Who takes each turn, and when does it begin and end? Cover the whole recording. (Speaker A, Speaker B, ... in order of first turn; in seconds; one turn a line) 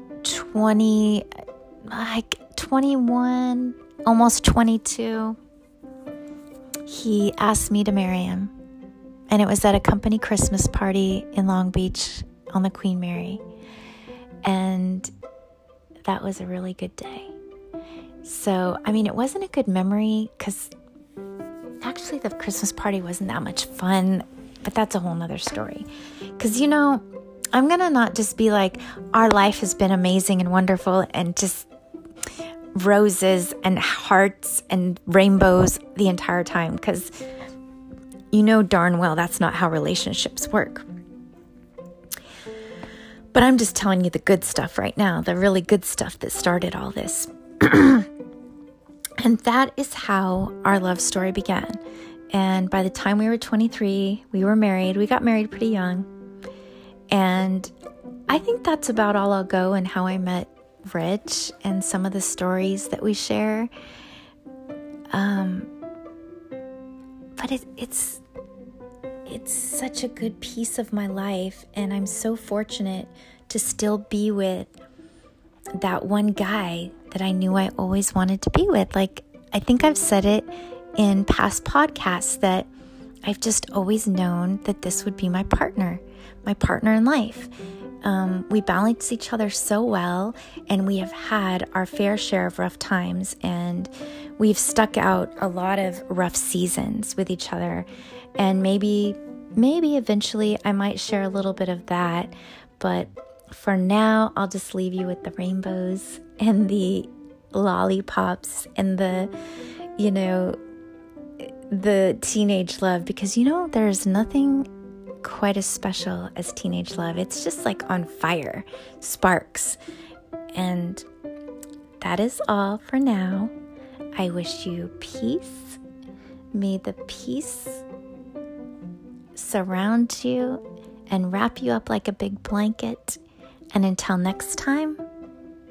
Speaker A: 0.2-1.3
Speaker A: 1.9-5.4
Speaker A: 6.9-8.5
Speaker A: 9.3-13.4
Speaker A: 14.4-15.1
Speaker A: 16.1-17.4
Speaker A: 18.2-20.7
Speaker A: 21.8-31.7
Speaker A: 32.7-37.1
Speaker A: 38.3-40.9
Speaker A: 43.3-48.1
Speaker A: 49.2-51.8
Speaker A: 52.3-56.1
Speaker A: 57.1-57.7
Speaker A: 58.3-63.7
Speaker A: 65.1-65.7
Speaker A: 67.4-68.2
Speaker A: 69.3-74.7
Speaker A: 75.8-82.7
Speaker A: 83.2-87.5
Speaker A: 88.0-97.9
Speaker A: 98.4-109.3
Speaker A: 110.0-110.6
Speaker A: 111.4-114.7
Speaker A: 115.2-119.8
Speaker A: 120.5-121.1
Speaker A: 122.0-123.5
Speaker A: 124.2-125.8
Speaker A: 126.5-127.8
Speaker A: 129.3-133.2
Speaker A: 133.7-135.0